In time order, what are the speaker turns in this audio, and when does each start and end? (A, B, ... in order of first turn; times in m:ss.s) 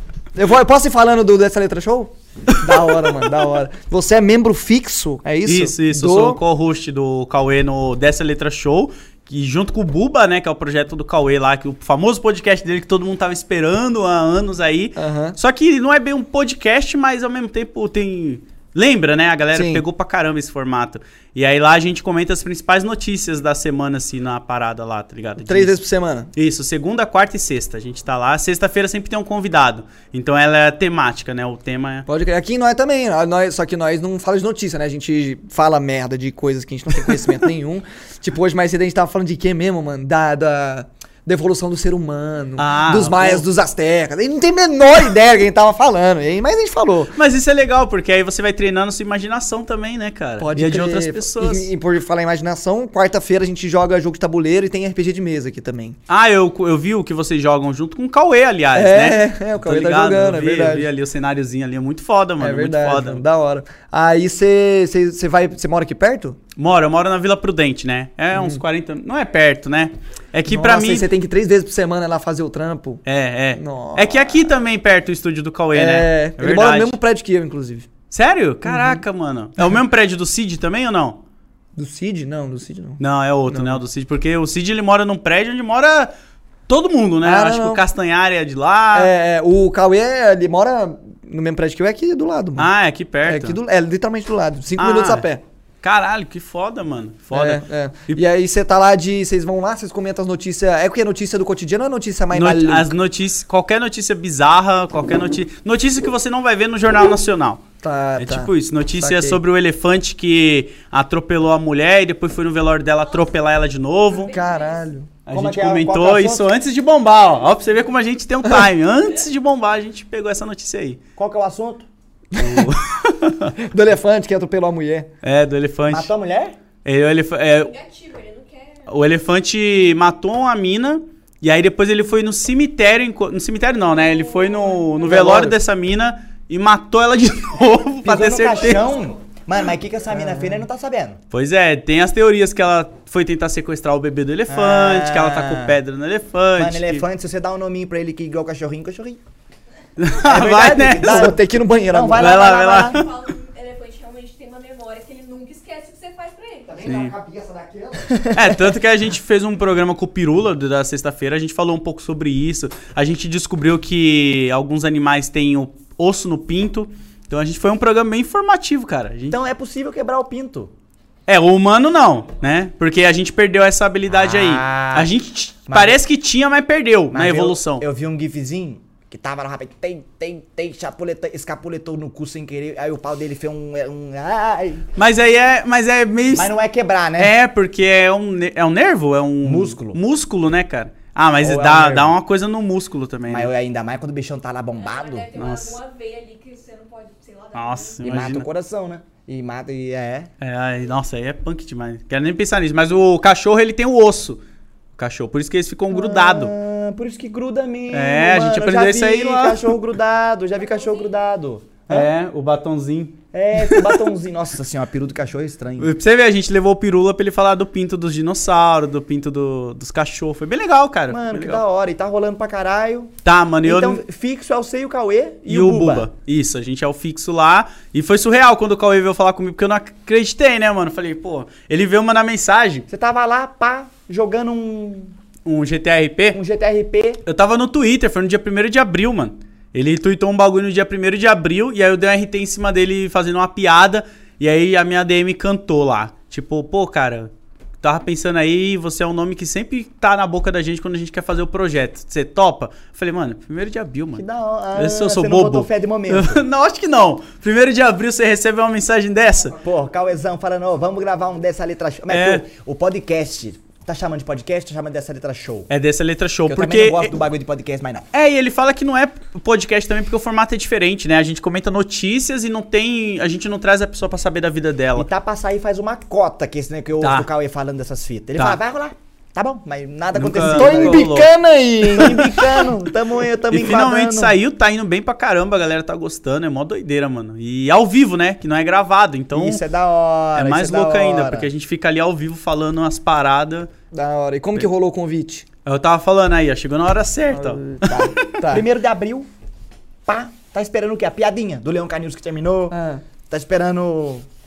0:00.3-0:06.4 A
0:05.4-0:25.8 B
0:15.0-0:15.4 A
0:19.5-0:19.8 A
0:25.4-0:26.3 A
0:26.3-0:32.0 B
0:32.0-0:47.1 A
0:42.6-0:43.4 B
0:47.1-0:51.7 B
0:50.4-0:56.0 A
0:56.1-1:03.2 B
0:58.7-1:00.9 A
1:02.4-1:06.4 A
1:06.6-1:11.1 B
1:08.3-1:08.6 A
1:10.5-1:13.0 A
1:13.0-1:17.0 B
1:13.5-1:14.3 A
1:15.7-1:17.9 A
1:18.1-1:21.2 B
1:18.6-1:19.0 A
1:21.8-1:23.8 A
1:23.0-1:26.1 B
1:26.7-1:29.1 B
1:27.2-1:27.8 A
1:28.9-1:32.7 A
1:32.6-1:33.6 B
1:33.2-1:35.4 A
1:34.8-1:35.2 B
1:35.8-1:38.2 B
1:37.3-1:42.9 A
1:42.3-1:47.6 B
1:47.8-1:49.4 A
1:48.2-1:54.4 B
1:53.0-1:53.3 C
1:54.1-1:54.9 C
1:54.3-1:55.1 A
1:55.2-2:01.0 B
1:55.3-1:56.5 D
2:01.2-2:01.9 D
2:02.4-2:02.7 A
2:02.4-2:03.5 B
2:03.6-2:05.1 A
2:05.2-2:06.1 B
2:05.9-2:06.6 D
2:06.8-2:07.7 B
2:07.6-2:08.9 C
2:08.9-2:18.9 B
2:13.9-2:15.1 C
2:15.1-2:15.6 D
2:18.0-2:21.2 D
2:20.1-2:20.6 A
2:21.3-2:27.0 B
2:24.5-2:25.7 D
2:26.6-2:29.2 D
2:30.0-2:31.3 B
2:30.2-2:33.0 D
2:31.0-2:32.4 A
2:32.1-2:33.1 B
2:32.4-2:36.8 C
2:36.7-2:38.2 A
2:36.8-2:37.1 B
2:38.1-2:38.4 D
2:38.3-2:49.4 B
2:49.3-2:50.7 D
2:51.3-2:57.8 B
2:54.1-2:55.1 D
2:55.7-2:56.0 D
2:57.1-3:04.8 D
3:05.0-3:06.5 B
3:06.3-3:07.3 D
3:07.2-3:13.5 B
3:09.4-3:10.0 D
3:11.4-3:12.1 D
3:13.3-3:15.3 D
3:14.8-3:18.0 C
3:15.3-3:15.8 B
3:17.5-3:18.5 B
3:18.0-3:20.3 D
3:20.4-3:24.4 B
3:25.0-3:26.5 B
3:25.9-3:32.1 D
3:27.9-3:29.8 B
3:30.6-3:31.2 C
3:31.9-3:34.0 B
3:33.3-3:35.9 D
3:35.8-3:41.6 B
3:41.1-3:46.1 D
3:43.2-3:44.0 B
3:45.5-3:52.8 B
3:52.9-3:55.1 D
3:55.4-3:56.4 B
3:56.3-3:57.2 D
3:57.2-4:07.3 B
4:07.8-4:19.6 B
4:14.2-4:16.4 D
4:19.6-4:25.7 D
4:22.1-4:22.4 B
4:25.7-4:27.1 B
4:26.4-4:28.1 D
4:28.1-4:35.1 B
4:35.0-4:41.1 D
4:37.0-4:37.3 B
4:40.1-4:41.3 B
4:40.4-4:42.7 A
4:41.9-4:44.3 D
4:43.5-4:49.6 B
4:49.3-4:51.5 D
4:50.3-4:53.7 B
4:53.9-4:55.4 A
4:55.6-4:58.4 B
4:57.3-4:58.6 A
4:58.5-4:59.3 D
5:00.0-5:02.8 D
5:02.7-5:03.0 A
5:03.3-5:04.2 D